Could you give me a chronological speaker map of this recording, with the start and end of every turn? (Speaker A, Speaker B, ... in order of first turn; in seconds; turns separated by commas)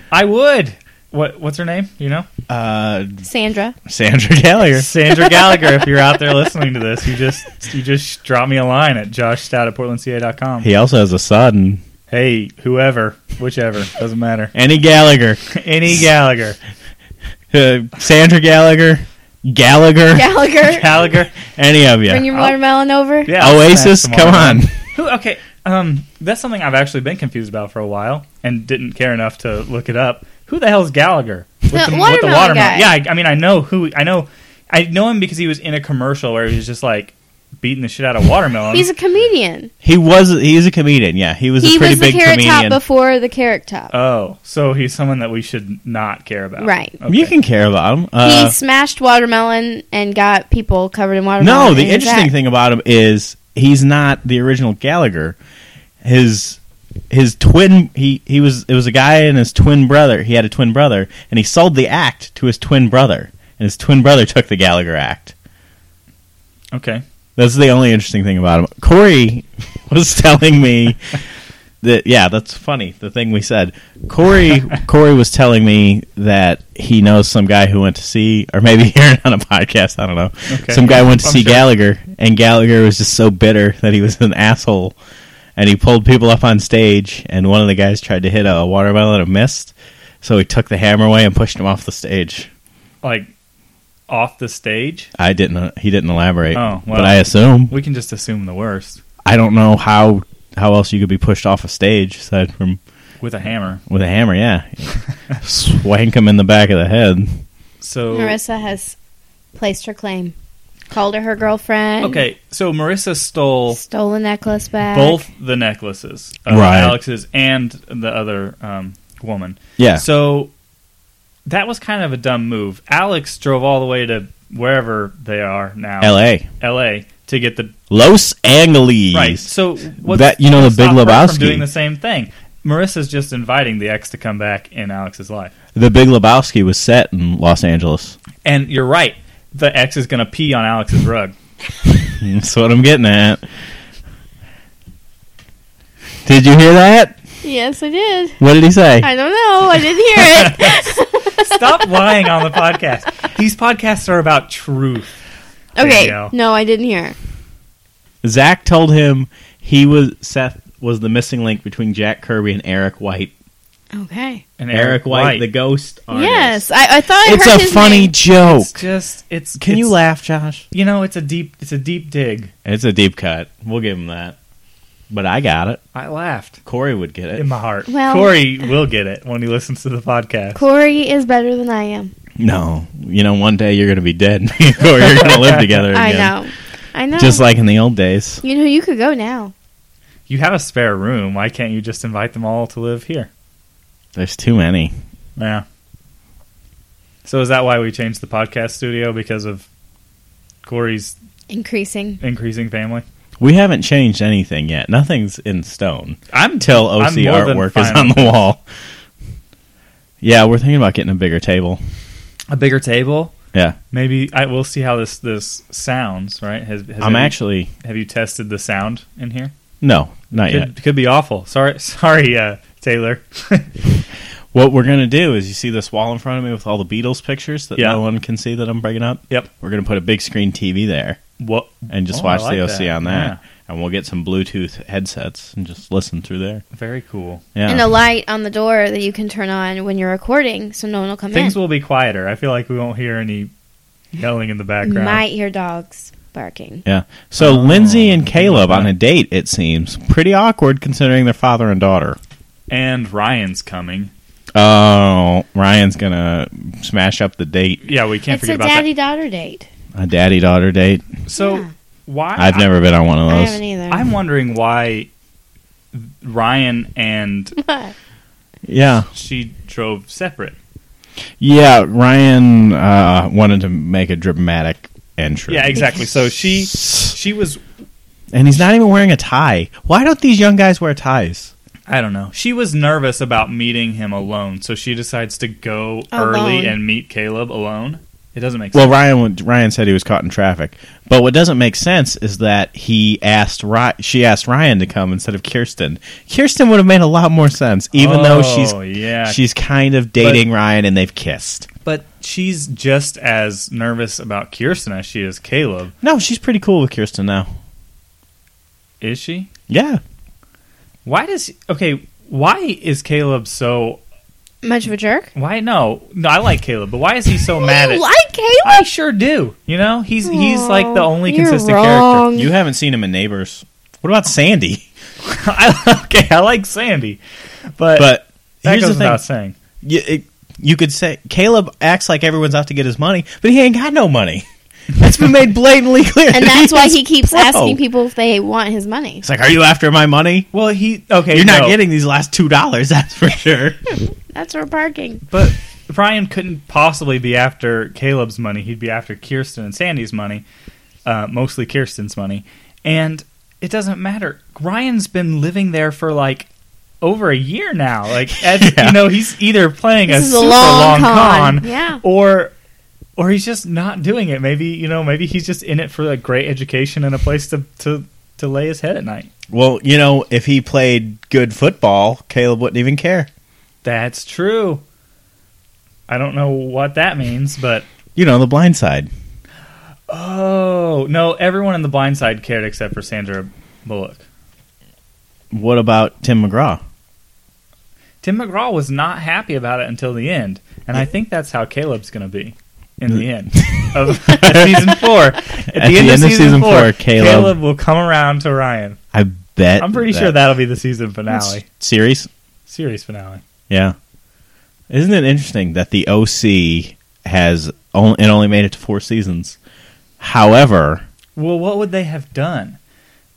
Speaker A: 0.1-2.3, Speaker B: 2.5-3.2, Speaker C: 3.2-3.8, Speaker B: 3.9-4.9, Speaker A: 4.7-10.7, Speaker B: 10.6-11.8, Speaker A: 12.1-14.5, Speaker B: 14.5-15.4, Speaker A: 15.5-16.6, Speaker B: 17.5-20.4, Speaker C: 20.1-21.0, Speaker A: 20.7-21.3, Speaker B: 21.4-22.3, Speaker C: 22.1-23.3, Speaker A: 22.3-22.6, Speaker A: 23.2-38.9, Speaker B: 23.4-24.8, Speaker C: 31.7-33.0, Speaker C: 38.7-39.7, Speaker B: 39.8-42.8, Speaker C: 41.6-43.9, Speaker A: 43.9-47.3, Speaker C: 46.6-47.0, Speaker B: 47.1-48.5, Speaker C: 48.2-52.3, Speaker B: 51.4-55.4, Speaker B: 56.0-56.6, Speaker B: 57.1-65.3, Speaker A: 66.7-67.0, Speaker B: 67.4-71.2, Speaker B: 71.8-84.9, Speaker A: 80.5-81.7, Speaker B: 85.5-92.5, Speaker A: 93.0-93.3, Speaker A: 94.1-95.1, Speaker B: 95.2-97.7, Speaker A: 96.5-99.0, Speaker B: 99.2-102.8, Speaker A: 103.2-103.8, Speaker B: 103.9-107.4, Speaker A: 107.8-108.4, Speaker C: 108.1-108.9, Speaker C: 109.5-110.3, Speaker C: 110.9-112.2, Speaker A: 112.0-113.8, Speaker C: 113.7-115.2, Speaker A: 114.9-120.5, Speaker B: 116.5-117.0, Speaker B: 119.8-120.0, Speaker A: 121.5-127.7, Speaker B: 126.0-126.5, Speaker B: 127.9-129.5, Speaker A: 129.1-135.5, Speaker B: 130.0-131.7, Speaker B: 135.7-138.1, Speaker A: 138.4-141.3, Speaker B: 142.0-143.4, Speaker B: 146.2-147.1, Speaker C: 147.4-148.4, Speaker B: 148.4-149.1, Speaker C: 149.0-151.6, Speaker A: 150.3-155.1, Speaker A: 155.8-156.3, Speaker C: 155.8-157.2, Speaker B: 158.2-163.3, Speaker C: 163.9-164.4, Speaker A: 164.6-165.5, Speaker B: 164.7-166.7, Speaker C: 166.1-168.1, Speaker B: 167.2-168.8, Speaker A: 168.4-169.9, Speaker B: 169.6-170.6, Speaker A: 170.7-172.5, Speaker B: 172.6-174.3, Speaker B: 175.1-175.8, Speaker A: 175.9-176.6, Speaker B: 176.6-177.5, Speaker A: 177.3-180.6, Speaker C: 177.9-178.4, Speaker C: 180.6-182.1, Speaker B: 182.4-186.3, Speaker A: 185.2-185.8, Speaker C: 185.9-187.4, Speaker B: 187.2-188.4, Speaker C: 188.4-189.5, Speaker A: 190.3-193.3, Speaker B: 194.1-194.9, Speaker A: 195.4-195.6, Speaker A: 197.2-199.7, Speaker A: 200.6-201.2, Speaker C: 201.5-202.2, Speaker A: 202.2-203.0, Speaker B: 203.4-208.6, Speaker A: 206.3-208.4, Speaker B: 210.2-211.8, Speaker A: 212.5-213.3, Speaker A: 213.9-219.5, Speaker B: 217.0-217.7, Speaker B: 219.8-220.7, Speaker A: 220.4-223.7, Speaker B: 224.5-231.2, Speaker A: 227.8-228.0, Speaker A: 231.4-233.4, Speaker B: 231.9-236.6, Speaker A: 236.7-237.4, Speaker B: 237.5-237.9, Speaker C: 237.7-241.5, Speaker A: 241.3-243.5, Speaker A: 244.1-245.2, Speaker C: 244.8-246.8, Speaker B: 246.8-252.2, Speaker A: 247.4-248.9, Speaker A: 252.7-254.1, Speaker B: 254.5-257.9, Speaker A: 257.8-258.9, Speaker C: 258.3-259.7, Speaker B: 259.9-261.1, Speaker A: 261.3-262.7, Speaker C: 261.4-261.7, Speaker B: 262.4-263.6, Speaker C: 263.3-264.1, Speaker A: 263.9-265.1, Speaker A: 265.9-267.6, Speaker C: 267.6-267.9, Speaker B: 268.6-269.1, Speaker A: 269.1-270.6, Speaker B: 271.4-276.0, Speaker A: 275.5-277.6, Speaker B: 276.7-277.1, Speaker B: 278.3-281.5, Speaker A: 281.9-288.9, Speaker C: 286.1-286.8, Speaker B: 288.7-301.7, Speaker A: 297.9-299.4, Speaker A: 301.8-305.9, Speaker B: 306.0-307.5, Speaker A: 309.0-309.5, Speaker B: 309.7-310.0, Speaker A: 311.0-314.0, Speaker C: 314.6-315.3, Speaker A: 315.3-318.0, Speaker C: 317.5-318.8, Speaker A: 318.6-322.2, Speaker C: 320.2-322.5, Speaker B: 322.3-324.9, Speaker A: 325.2-327.2, Speaker A: 327.8-328.1, Speaker B: 327.9-329.2, Speaker A: 328.6-329.6, Speaker B: 329.8-337.8, Speaker C: 336.3-339.2, Speaker B: 339.2-340.5, Speaker A: 340.5-341.8, Speaker B: 341.3-343.8, Speaker C: 344.3-345.2, Speaker A: 345.3-350.4, Speaker A: 351.1-356.5, Speaker A: 357.0-362.5, Speaker B: 358.4-359.1, Speaker C: 360.1-362.0, Speaker A: 363.2-369.3, Speaker B: 369.5-373.3, Speaker A: 373.8-374.8, Speaker A: 376.1-377.9, Speaker B: 378.1-379.1, Speaker A: 380.1-384.2, Speaker B: 385.5-386.8, Speaker A: 388.2-399.0, Speaker B: 393.6-395.0, Speaker B: 395.7-397.6, Speaker B: 399.1-400.4, Speaker A: 399.8-401.6, Speaker B: 401.3-402.3, Speaker A: 402.7-403.4, Speaker B: 403.7-403.9, Speaker B: 404.9-409.6, Speaker B: 410.2-411.0, Speaker A: 411.4-412.8